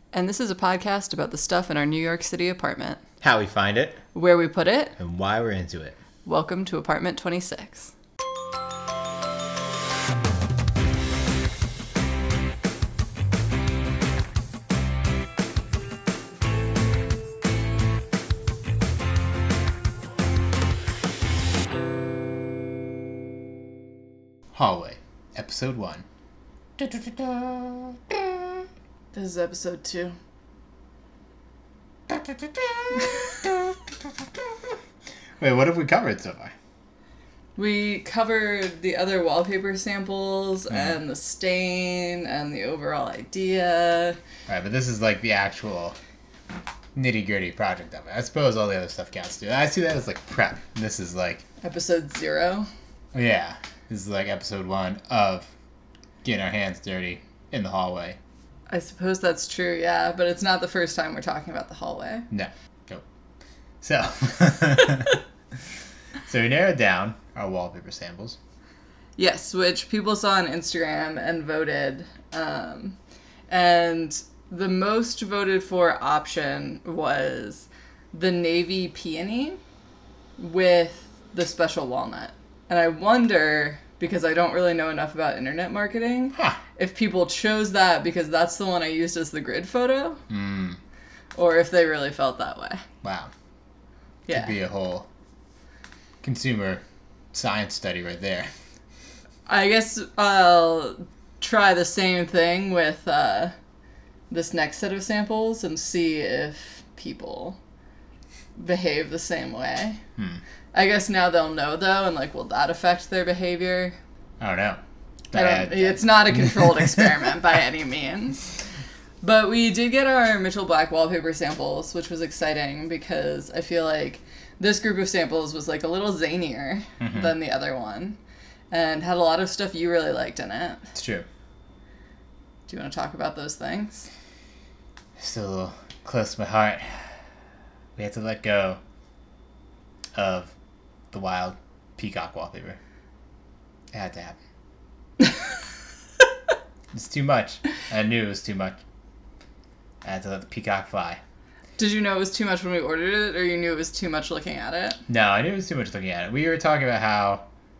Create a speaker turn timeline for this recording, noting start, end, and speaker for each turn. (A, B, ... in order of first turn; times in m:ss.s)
0:00.1-0:03.0 A
0:03.2-0:04.0 B
0:04.1-0:05.0 A
0:05.0-0:06.0 B
0:06.2-0:07.9 A
0:24.5-0:26.0 B
0:26.8-0:28.6 B
0:29.1-0:30.2 A
0:32.1-0:34.2 B
0:35.4-0:36.5 B
0:37.6-0:44.2 A
0:40.7-0:41.0 B
0:44.5-0:46.0 B
0:46.9-0:51.4 B
0:51.6-0:52.7 A
0:53.1-0:55.5 B
0:56.2-0:58.2 B
0:58.7-1:02.3 A
1:02.3-1:03.0 B
1:03.8-1:05.2 B
1:06.3-1:08.4 B
1:09.2-1:13.0 A
1:13.5-1:19.6 A
1:20.4-1:30.2 A
1:26.3-1:26.6 B
1:30.3-1:30.8 B
1:31.4-1:32.8 A
1:33.0-1:33.3 B
1:34.3-1:34.6 A
1:34.3-1:35.1 B
1:36.2-1:36.8 B
1:37.3-1:38.5 B
1:39.5-1:43.5 A
1:44.3-1:47.6 A
1:48.6-1:50.0 A
1:50.7-1:54.0 A
1:54.4-1:54.8 B
1:55.3-1:57.1 B
1:55.3-1:58.6 A
1:59.2-2:08.2 A
2:07.0-2:07.3 B
2:08.7-2:10.9 A
2:10.9-2:11.2 B
2:12.7-2:14.1 A
2:15.2-2:17.1 B
2:18.0-2:18.8 B
2:20.2-2:20.5 B
2:21.1-2:22.8 B
2:23.9-2:24.4 B
2:26.9-2:28.8 B
2:30.0-2:31.2 B
2:31.8-2:35.0 A
2:35.1-2:37.4 B